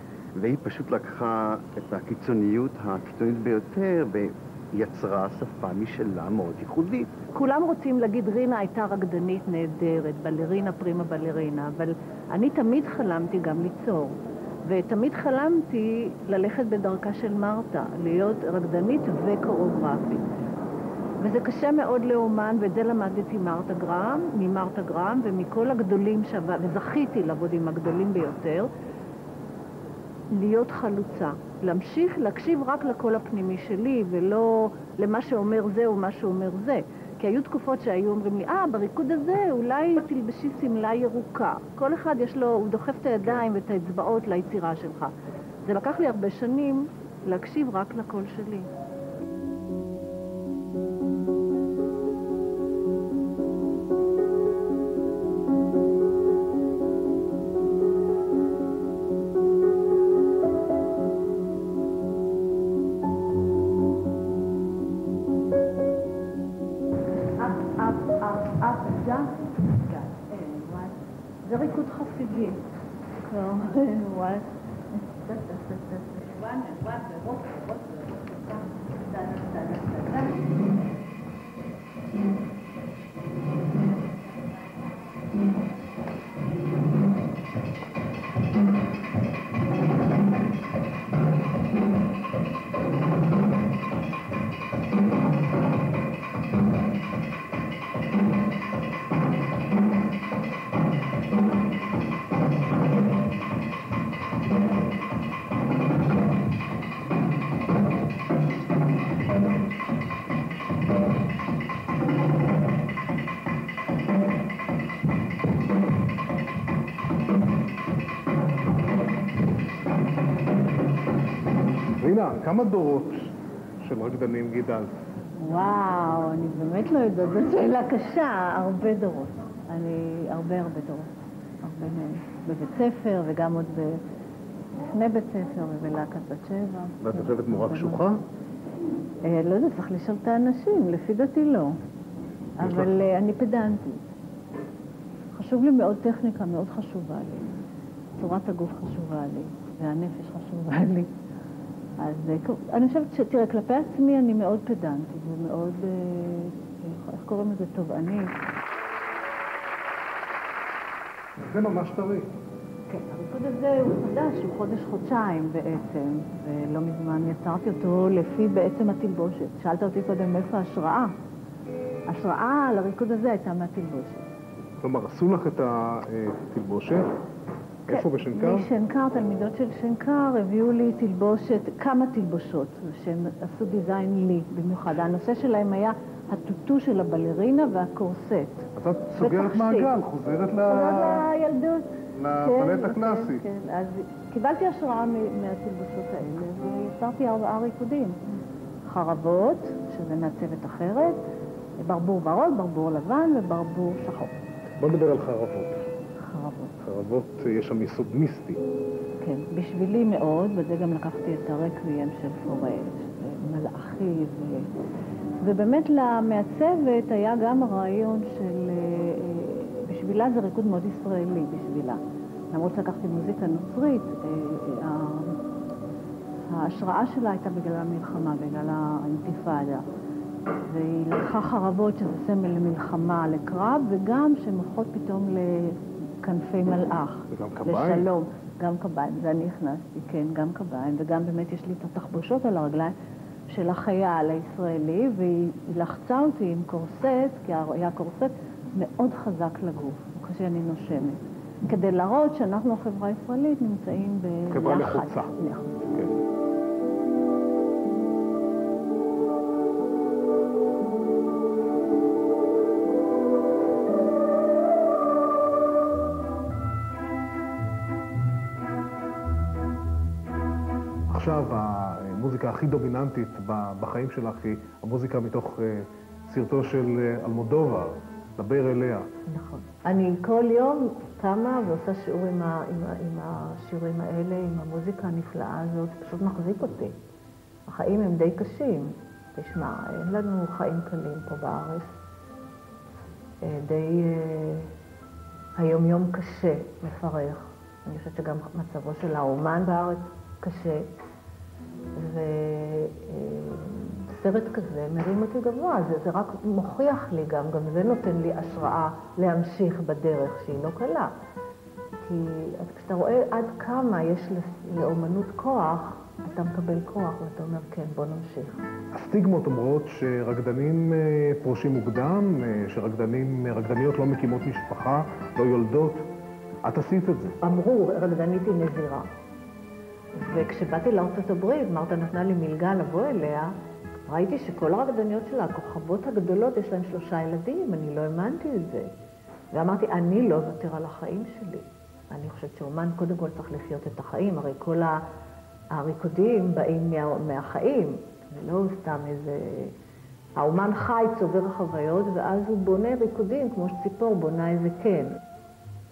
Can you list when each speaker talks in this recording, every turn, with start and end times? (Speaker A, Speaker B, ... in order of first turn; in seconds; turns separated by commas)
Speaker A: 0.3-7.1, Speaker B: 7.3-20.2, Speaker B: 21.2-28.7, Speaker B: 30.3-45.1, Speaker B: 45.6-48.7, Speaker B: 67.3-72.6, Speaker B: 73.2-80.6, Speaker C: 122.0-125.0, Speaker B: 125.4-134.0, Speaker B: 134.9-138.2, Speaker C: 137.0-138.2, Speaker B: 139.2-141.8, Speaker B: 142.6-144.0, Speaker C: 142.6-142.9, Speaker B: 145.3-147.5, Speaker B: 148.2-151.1, Speaker B: 152.0-158.3, Speaker C: 161.4-162.3, Speaker B: 162.9-171.1, Speaker B: 172.1-174.3, Speaker C: 174.8-177.1, Speaker C: 177.9-178.7, Speaker B: 177.9-189.9, Speaker C: 188.7-191.3, Speaker B: 190.7-198.2, Speaker C: 192.1-193.4, Speaker B: 198.8-201.2, Speaker B: 201.8-204.3, Speaker C: 204.8-205.8, Speaker B: 206.2-206.8, Speaker C: 206.8-208.6, Speaker B: 209.2-214.7, Speaker B: 215.4-222.0, Speaker B: 222.5-225.4, Speaker B: 226.5-229.8, Speaker B: 230.6-242.9, Speaker C: 237.3-238.1, Speaker B: 243.5-255.9, Speaker C: 254.5-255.3, Speaker C: 271.1-279.1, Speaker B: 279.3-286.9, Speaker B: 287.6-291.9, Speaker B: 293.4-294.7, Speaker B: 295.6-300.9, Speaker B: 301.9-311.1, Speaker B: 312.0-318.6, Speaker C: 318.9-326.1, Speaker C: 326.6-327.4, Speaker B: 327.4-329.1, Speaker B: 330.1-333.5, Speaker B: 334.1-338.9, Speaker B: 339.5-345.0, Speaker B: 345.7-349.7, Speaker B: 350.4-355.2